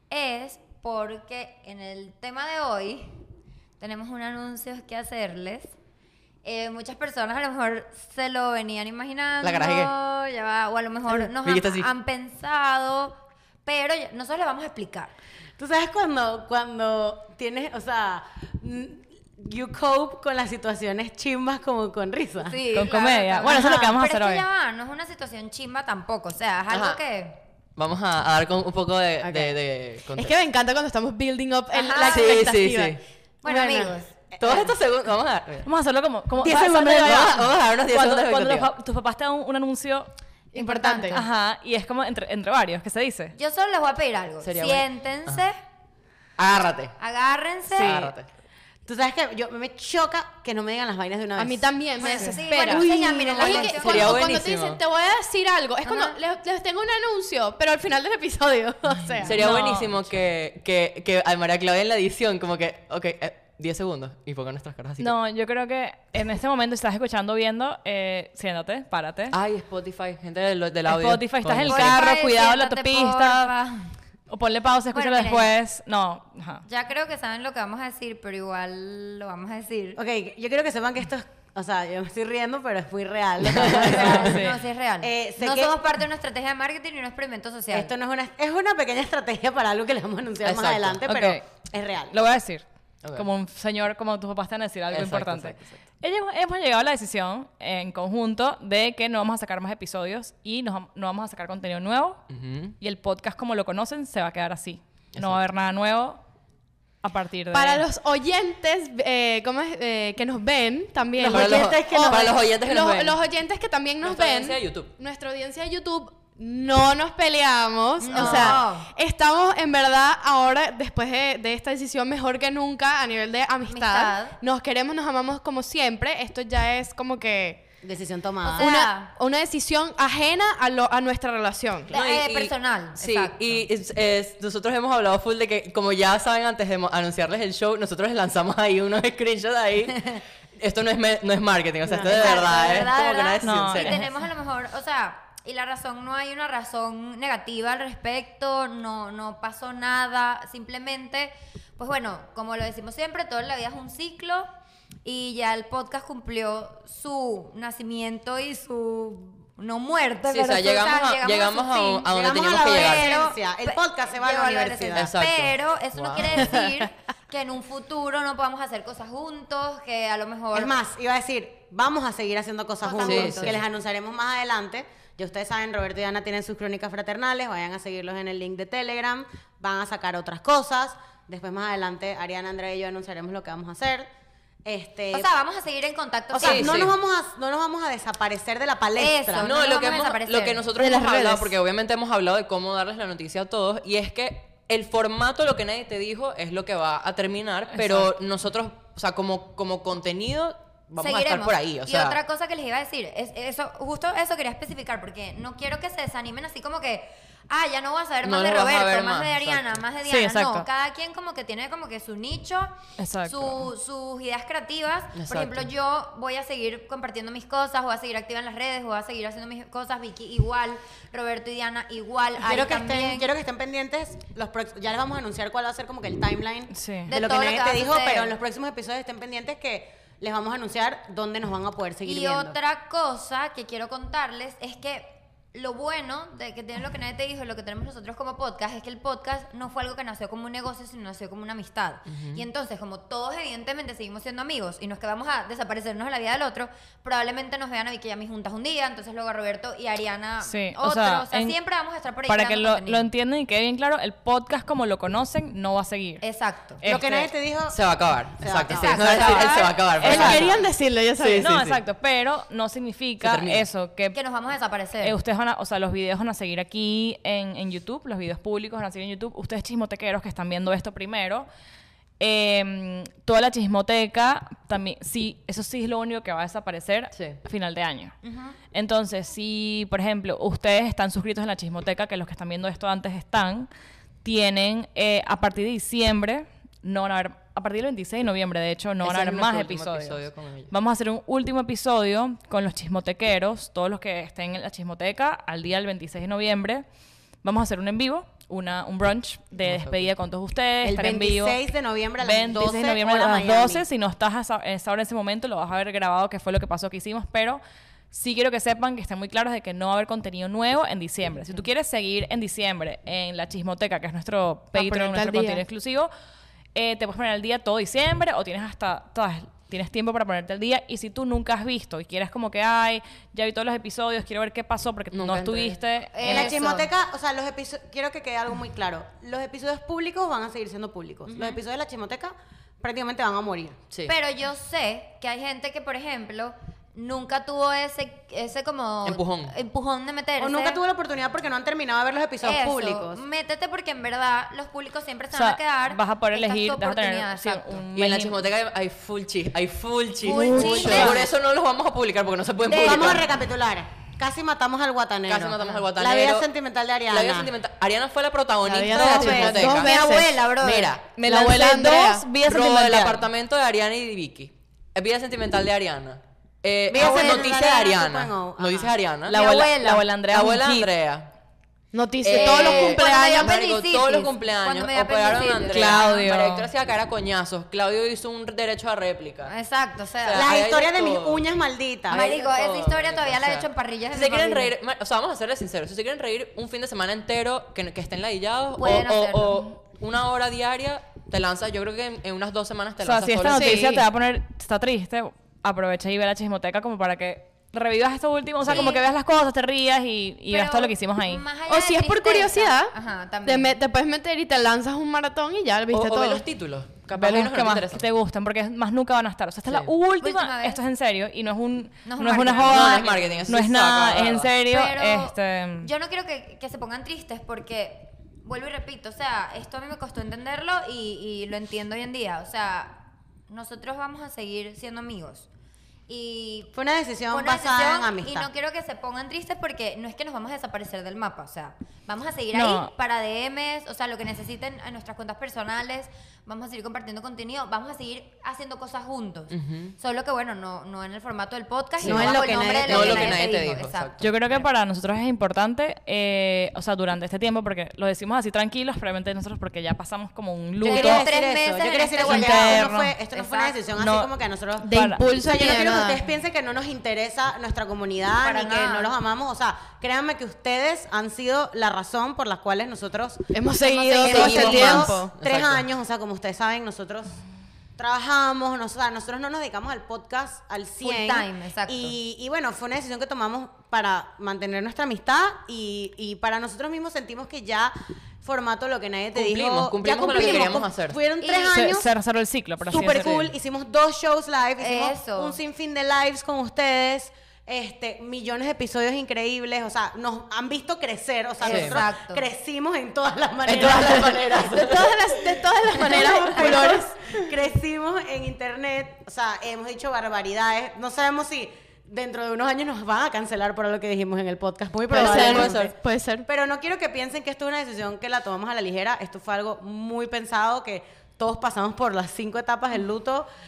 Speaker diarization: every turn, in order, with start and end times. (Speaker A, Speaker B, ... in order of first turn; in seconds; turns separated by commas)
Speaker A: 0.1-3.1, Speaker A: 3.8-5.7, Speaker A: 6.4-15.1, Speaker B: 9.4-9.9, Speaker B: 11.1-11.9, Speaker C: 15.6-22.6, Speaker A: 22.4-27.4, Speaker D: 22.7-24.4, Speaker B: 26.7-27.0, Speaker B: 27.8-30.4, Speaker C: 29.2-29.6, Speaker E: 30.1-34.0, Speaker A: 31.7-32.5, Speaker B: 32.0-33.0, Speaker A: 33.4-34.6, Speaker B: 34.4-35.7, Speaker C: 34.4-34.6, Speaker D: 35.6-43.3, Speaker B: 36.4-38.7, Speaker E: 40.5-41.2, Speaker A: 40.7-41.2, Speaker A: 43.3-45.6, Speaker B: 44.4-45.4, Speaker B: 46.4-46.9, Speaker A: 47.0-48.1, Speaker B: 47.7-48.3, Speaker C: 48.9-53.9, Speaker E: 51.4-59.5, Speaker A: 52.0-54.4, Speaker B: 53.8-54.8, Speaker A: 55.8-56.2, Speaker B: 59.2-65.1, Speaker D: 59.3-60.0, Speaker D: 65.0-69.4, Speaker B: 69.3-72.0, Speaker D: 70.9-73.5, Speaker A: 71.7-73.9, Speaker D: 74.3-76.6, Speaker A: 74.9-75.5, Speaker A: 76.7-80.0, Speaker C: 80.0-84.3, Speaker B: 83.4-84.5, Speaker A: 83.6-87.9, Speaker D: 84.3-84.6, Speaker C: 85.0-85.9, Speaker C: 87.7-92.2, Speaker B: 90.4-91.0, Speaker D: 91.1-91.4, Speaker D: 92.1-102.2, Speaker B: 94.9-95.8, Speaker B: 102.3-102.8, Speaker D: 102.8-106.2, Speaker B: 105.2-105.4, Speaker D: 107.0-107.8, Speaker E: 107.5-127.6, Speaker C: 111.2-112.4, Speaker B: 111.2-113.2, Speaker B: 114.0-114.9, Speaker A: 118.0-118.9, Speaker C: 118.1-118.6, Speaker A: 123.7-124.4, Speaker C: 127.8-128.8, Speaker A: 128.4-129.1, Speaker E: 128.6-131.9, Speaker B: 131.9-144.0, Speaker A: 131.9-133.6, Speaker A: 141.9-154.5, Speaker D: 143.4-144.1, Speaker A: 155.0-170.7, Speaker B: 160.3-163.1, Speaker C: 162.1-165.1, Speaker B: 164.9-166.7, Speaker C: 170.5-184.1, Speaker A: 172.8-173.5, Speaker B: 173.0-173.6, Speaker C: 184.6-185.3, Speaker A: 185.1-186.7, Speaker C: 186.3-189.5, Speaker B: 186.4-186.9, Speaker A: 188.9-190.6, Speaker B: 189.4-202.2, Speaker E: 190.8-191.6, Speaker D: 197.7-198.1, Speaker A: 201.0-223.3, Speaker B: 208.2-209.8, Speaker D: 210.0-210.7, Speaker D: 213.0-213.7, Speaker B: 215.1-215.7, Speaker C: 222.4-232.6, Speaker D: 226.7-227.1, Speaker A: 227.1-228.3, Speaker A: 232.0-253.1, Speaker B: 242.1-242.4, Speaker D: 250.4-251.6, Speaker D: 252.3-256.2, Speaker A: 256.2-256.8, Speaker D: 256.8-257.3, Speaker C: 256.8-257.8, Speaker B: 257.7-260.6, Speaker C: 258.4-259.4, Speaker A: 258.7-260.3, Speaker D: 259.0-260.5, Speaker E: 260.0-261.6, Speaker C: 260.1-260.6, Speaker B: 261.1-261.8, Speaker D: 261.4-264.2, Speaker B: 263.2-263.7, Speaker A: 264.1-265.2, Speaker D: 265.0-271.5, Speaker D: 272.2-278.1, Speaker B: 277.1-277.4, Speaker A: 278.2-278.6, Speaker D: 278.7-283.7, Speaker D: 284.2-296.8, Speaker B: 289.0-290.7, Speaker D: 297.4-301.6, Speaker B: 299.5-300.1, Speaker C: 300.8-303.8, Speaker D: 302.2-307.6, Speaker D: 308.1-316.1, Speaker E: 314.7-315.6, Speaker D: 316.7-326.5, Speaker B: 325.1-325.8, Speaker A: 326.1-326.9, Speaker C: 326.2-333.8, Speaker A: 331.3-331.6, Speaker A: 334.1-340.8, Speaker B: 339.0-339.5, Speaker C: 340.4-343.2, Speaker A: 342.4-347.8, Speaker D: 345.3-348.4, Speaker B: 347.9-353.3, Speaker A: 350.2-351.2, Speaker D: 350.3-351.2, Speaker A: 352.7-353.2, Speaker C: 352.7-357.5, Speaker B: 355.3-356.5, Speaker B: 357.1-360.0, Speaker E: 358.6-360.4, Speaker C: 358.9-360.2, Speaker A: 359.2-360.9, Speaker B: 360.5-361.1, Speaker D: 361.1-363.3, Speaker E: 361.2-362.3, Speaker B: 362.4-369.5, Speaker C: 366.9-368.9, Speaker A: 366.9-367.6, Speaker A: 369.3-370.0, Speaker D: 369.3-370.9, Speaker B: 370.3-371.3, Speaker E: 371.9-373.6, Speaker B: 372.2-379.5, Speaker A: 372.3-376.3, Speaker D: 375.7-376.7, Speaker A: 379.4-380.5, Speaker B: 380.2-381.4, Speaker C: 380.3-382.2, Speaker B: 382.1-394.0, Speaker A: 382.1-384.7, Speaker A: 388.8-389.6, Speaker D: 393.0-401.5, Speaker E: 393.4-394.0, Speaker A: 398.6-399.1, Speaker A: 400.5-403.8, Speaker E: 401.6-402.9, Speaker E: 403.4-406.4, Speaker B: 405.9-408.1, Speaker D: 407.1-415.9, Speaker A: 410.2-410.8, Speaker A: 412.0-413.3, Speaker B: 412.5-414.5, Speaker A: 414.7-425.5, Speaker A: 426.1-426.7, Speaker C: 426.7-428.5, Speaker A: 427.3-444.6, Speaker D: 432.5-432.9, Speaker B: 439.5-439.9, Speaker B: 442.0-444.2, Speaker C: 442.0-443.5, Speaker D: 444.2-451.3, Speaker A: 450.8-453.8, Speaker C: 450.8-463.4, Speaker D: 452.1-453.1, Speaker D: 453.9-454.3, Speaker E: 454.8-456.2, Speaker D: 454.9-455.3, Speaker A: 458.4-459.1, Speaker E: 463.5-465.3, Speaker A: 463.8-465.2, Speaker C: 464.0-467.4, Speaker B: 464.3-465.9, Speaker C: 468.0-482.1, Speaker A: 471.0-472.1, Speaker B: 479.3-481.2, Speaker A: 480.3-480.8, Speaker A: 481.4-481.8, Speaker D: 481.7-483.5, Speaker C: 482.9-495.1, Speaker A: 484.8-485.6, Speaker A: 491.6-492.5, Speaker B: 491.6-492.0, Speaker B: 493.6-495.1, Speaker E: 494.7-497.5, Speaker C: 495.8-505.9, Speaker E: 505.1-506.5, Speaker B: 505.1-505.9, Speaker C: 506.4-513.5